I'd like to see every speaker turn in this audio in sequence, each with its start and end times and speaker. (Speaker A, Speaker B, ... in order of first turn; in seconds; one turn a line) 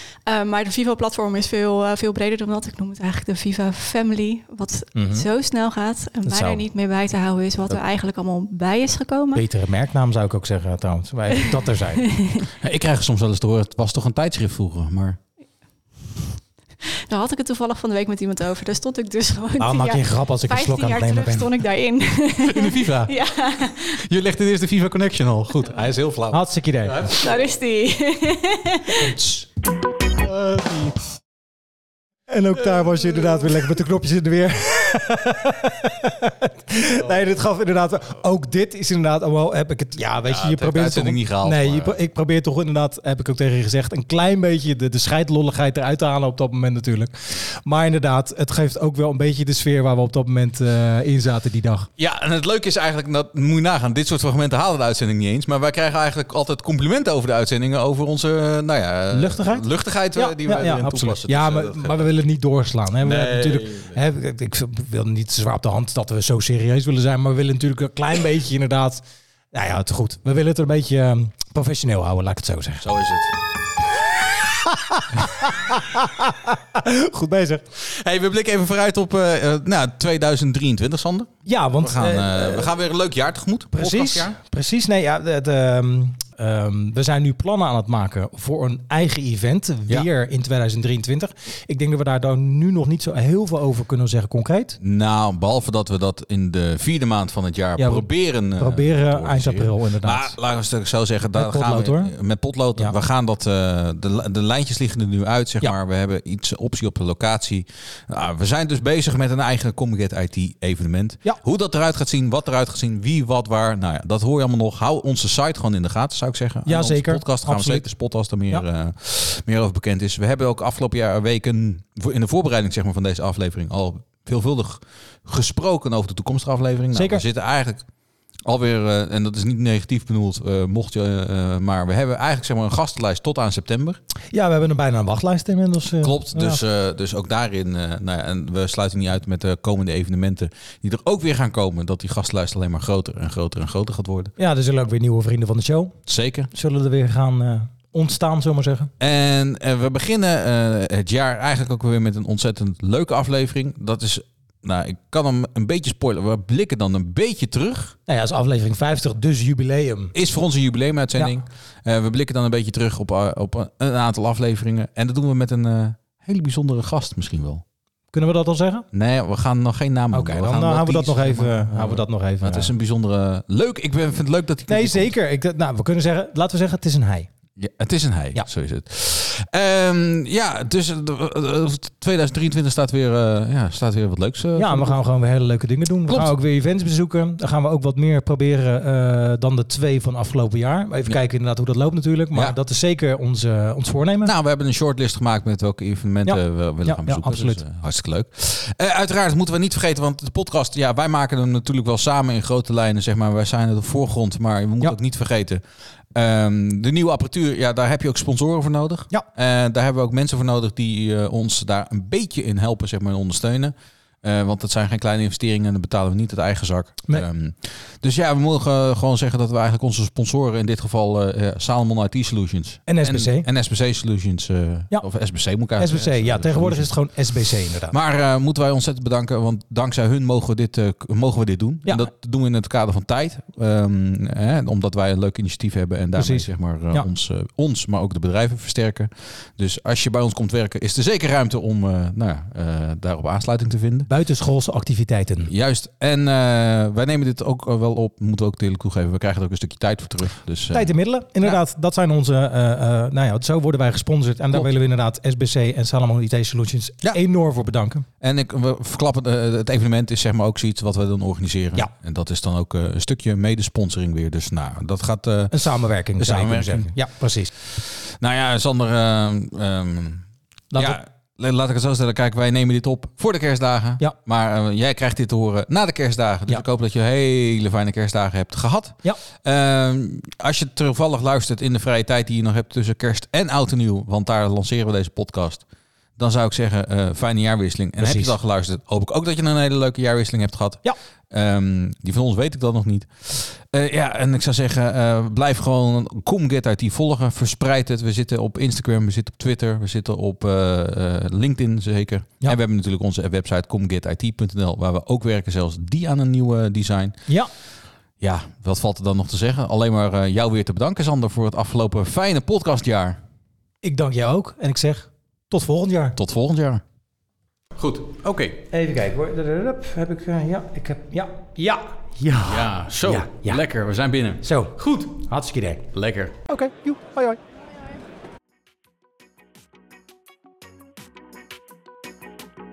Speaker A: 0.3-9.4
Speaker B: 5.0-5.3
Speaker B: 6.2-6.6
Speaker B: 9.3-12.1
Speaker A: 12.0-12.5
Speaker C: 12.6-15.2
Speaker A: 17.1-24.0
Speaker B: 19.6-21.5
Speaker C: 22.4-23.1
Speaker C: 23.8-27.4
Speaker B: 26.3-27.1
Speaker A: 27.2-29.2
Speaker C: 30.2-31.0
Speaker B: 32.3-51.9
Speaker C: 40.2-42.0
Speaker C: 52.0-62.1
Speaker B: 59.1-72.8
Speaker C: 63.0-64.0
Speaker C: 72.8-73.3
Speaker B: 74.6-77.6
Speaker C: 77.8-84.3
Speaker B: 81.5-82.7
Speaker B: 83.7-94.8
Speaker C: 94.8-127.8
Speaker B: 97.8-100.3
Speaker B: 101.3-102.1
Speaker B: 116.7-117.9
Speaker B: 126.9-127.2
Speaker C: 128.4-134.0
Speaker B: 134.3-136.6
Speaker C: 136.0-144.3
Speaker B: 144.4-145.9
Speaker C: 146.1-146.5
Speaker B: 146.5-148.9
Speaker C: 149.0-158.0
Speaker B: 158.1-160.1
Speaker C: 160.1-167.6
Speaker B: 168.1-168.9
Speaker C: 168.9-175.1
Speaker B: 170.1-172.7
Speaker B: 174.7-177.3
Speaker C: 177.6-185.0
Speaker B: 184.6-194.3
Speaker C: 186.1-186.3
Speaker C: 194.2-205.6
Speaker B: 196.3-197.6
Speaker C: 206.1-226.9
Speaker B: 222.9-223.5
Speaker B: 225.8-227.9
Speaker C: 227.9-244.1
Speaker B: 236.2-237.1
Speaker B: 244.1-245.5
Speaker C: 245.4-251.6
Speaker B: 250.7-258.1
Speaker C: 258.2-266.9
Speaker B: 265.5-267.5
Speaker C: 267.6-270.2
Speaker B: 270.7-271.0
Speaker C: 270.8-285.6
Speaker C: 286.2-307.2
Speaker B: 288.0-288.3
Speaker C: 308.2-313.2
Speaker B: 313.8-316.2
Speaker C: 316.2-316.8
Speaker C: 317.8-318.6
Speaker B: 318.7-323.6
Speaker C: 322.4-325.1
Speaker B: 324.4-325.9
Speaker C: 325.9-326.4
Speaker B: 326.5-327.4